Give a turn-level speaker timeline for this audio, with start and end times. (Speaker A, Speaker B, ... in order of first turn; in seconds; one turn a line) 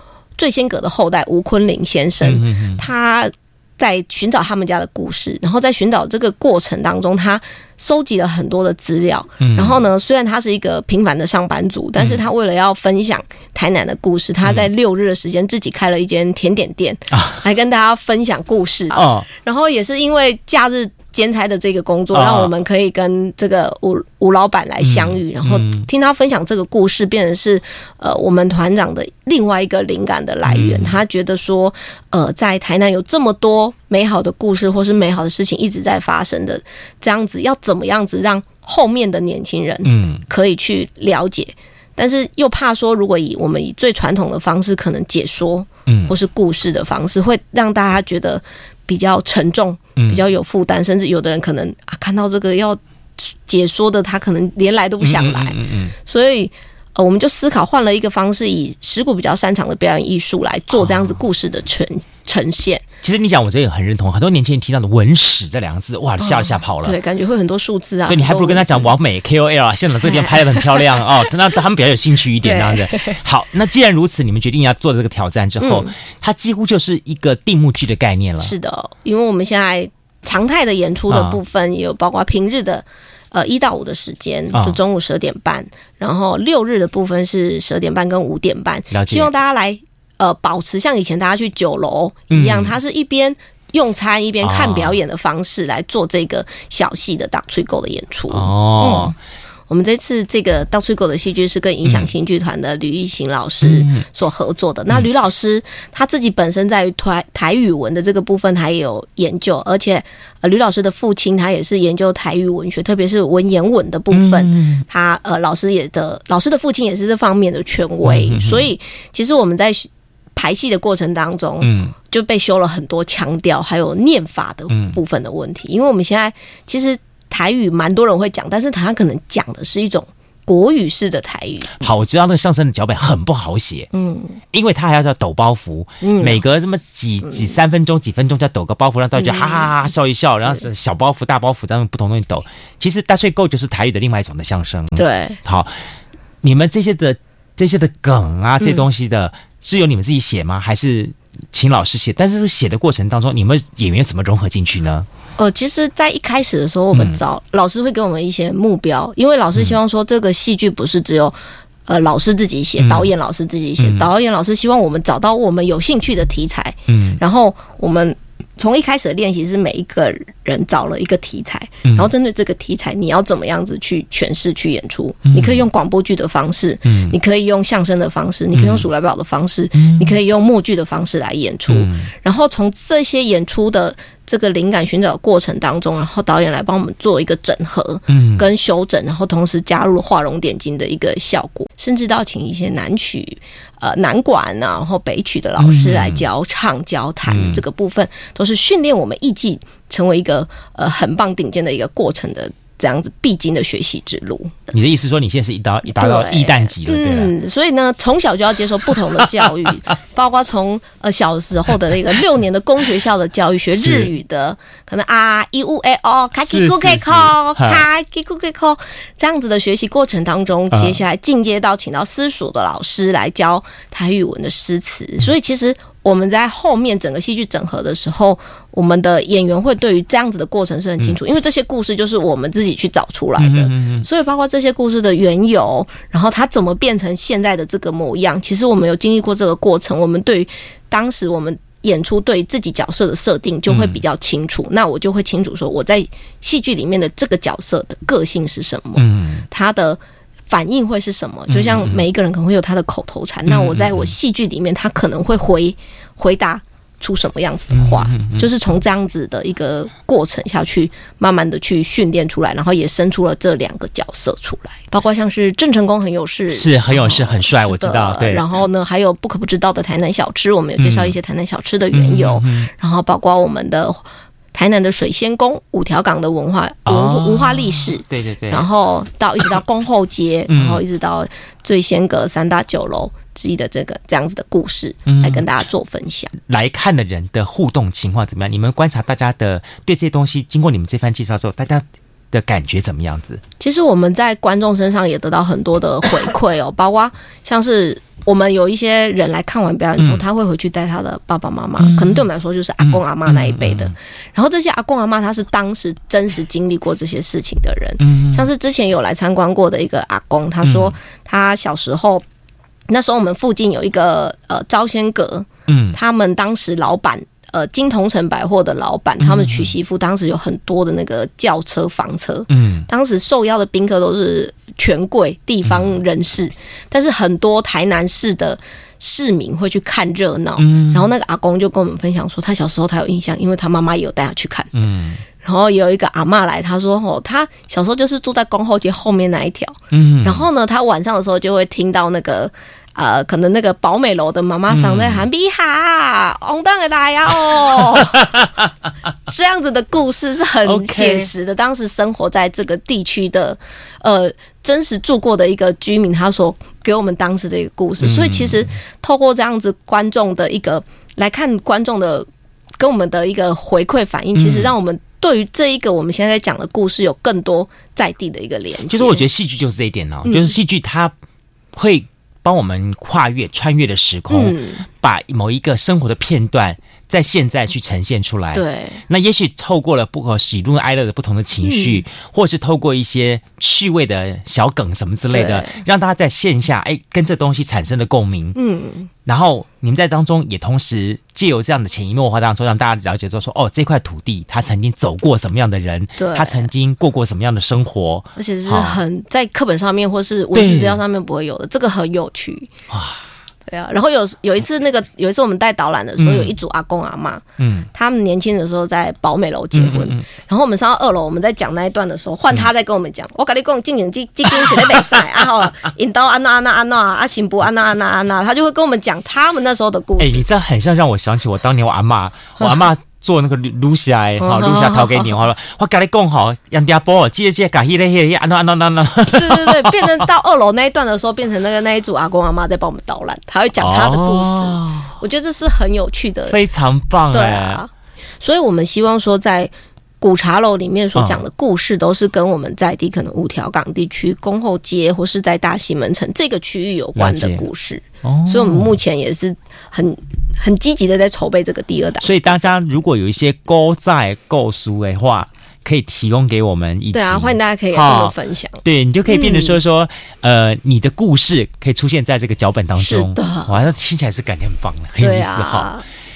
Speaker A: 0.4-62.8
Speaker B: 2.2-2.9
Speaker B: 9.4-9.8
Speaker B: 17.1-17.4
Speaker B: 18.9-19.3
Speaker B: 22.1-22.5
Speaker B: 24.8-25.9
Speaker B: 30.4-31.0
Speaker B: 39.8-40.2
Speaker B: 45.9-46.1
Speaker B: 50.0-50.2
Speaker B: 55.0-55.9
Speaker B: 63.0-67.0
Speaker A: 66.2-68.9
Speaker B: 68.1-78.5
Speaker A: 70.0-71.3
Speaker A: 72.4-73.2
Speaker A: 75.6-75.9
Speaker A: 78.4-99.1
Speaker B: 81.1-81.4
Speaker B: 84.5-84.8
Speaker B: 88.9-89.3
Speaker B: 92.3-92.8
Speaker B: 94.4-95.0
Speaker B: 98.3-99.1
Speaker A: 99.7-131.7
Speaker B: 101.8-102.1
Speaker B: 103.6-104.0
Speaker B: 114.1-114.8
Speaker B: 118.0-118.7
Speaker B: 121.6-121.9
Speaker B: 124.7-125.0
Speaker B: 131.8-133.9
Speaker A: 133.9-134.4
Speaker B: 134.5-145.7
Speaker A: 136.0-136.4
Speaker A: 137.2-137.5
Speaker A: 139.1-139.7
Speaker A: 144.9-145.4
Speaker B: 146.4-155.1
Speaker A: 148.6-148.8
Speaker A: 155.4-204.7
Speaker B: 156.9-157.2
Speaker B: 162.8-163.1
Speaker B: 163.8-164.1
Speaker B: 166.9-167.2
Speaker B: 171.8-172.1
Speaker B: 175.3-175.6
Speaker B: 176.8-177.2
Speaker B: 178.5-178.8
Speaker B: 179.7-180.2
Speaker B: 181.7-182.1
Speaker B: 188.1-188.5
Speaker B: 195.6-196.2
Speaker B: 197.2-197.6
Speaker B: 204.7-207.3
Speaker A: 205.8-286.3
Speaker B: 208.9-209.7
Speaker B: 213.7-214.1
Speaker B: 216.4-217.8
Speaker B: 220.7-221.0
Speaker B: 233.4-234.1
Speaker B: 243.7-244.0
Speaker B: 248.9-249.4
Speaker B: 251.5-252.0
Speaker B: 253.4-254.1
Speaker B: 257.7-258.5
Speaker B: 266.5-268.5
Speaker B: 270.8-271.1
Speaker B: 271.9-272.7
Speaker B: 276.9-278.6
Speaker B: 280.5-280.8
Speaker B: 285.1-285.4
Speaker B: 286.5-293.4
Speaker A: 293.6-312.2
Speaker B: 300.0-300.2
Speaker B: 301.8-302.2
Speaker B: 302.8-303.9
Speaker B: 308.0-308.5
Speaker B: 310.6-310.9
Speaker A: 312.9-334.7
Speaker B: 315.7-316.0
Speaker B: 319.2-319.7
Speaker B: 322.5-322.9
Speaker B: 325.6-325.9
Speaker B: 330.6-331.1
Speaker B: 334.7-335.2
Speaker A: 335.4-348.3
Speaker B: 339.9-340.5
Speaker B: 344.7-345.3
Speaker B: 347.6-348.4
Speaker A: 349.2-362.3
Speaker B: 350.6-351.3
Speaker B: 358.0-358.7
Speaker A: 362.8-369.2
Speaker B: 364.3-364.7
Speaker B: 368.9-371.1
Speaker A: 370.3-370.5
Speaker B: 371.7-388.6
Speaker A: 374.3-374.9
Speaker A: 378.5-379.0
Speaker A: 381.6-382.0
Speaker A: 385.3-385.8
Speaker A: 388.6-389.1
Speaker B: 389.2-399.0
Speaker A: 396.2-396.7
Speaker A: 398.4-402.7
Speaker B: 400.5-401.0
Speaker B: 402.9-403.2
Speaker A: 403.7-420.4
Speaker B: 406.2-406.5
Speaker B: 407.6-407.9
Speaker B: 409.7-410.2
Speaker B: 420.2-430.3
Speaker A: 424.4-425.3
Speaker A: 429.3-436.6
Speaker B: 433.8-435.1
Speaker B: 436.5-437.8
Speaker A: 437.3-452.7
Speaker B: 441.1-441.4
Speaker B: 447.1-447.6
Speaker B: 448.2-448.9
Speaker B: 452.2-465.9
Speaker A: 457.1-459.8
Speaker A: 462.9-463.8
Speaker A: 465.2-466.0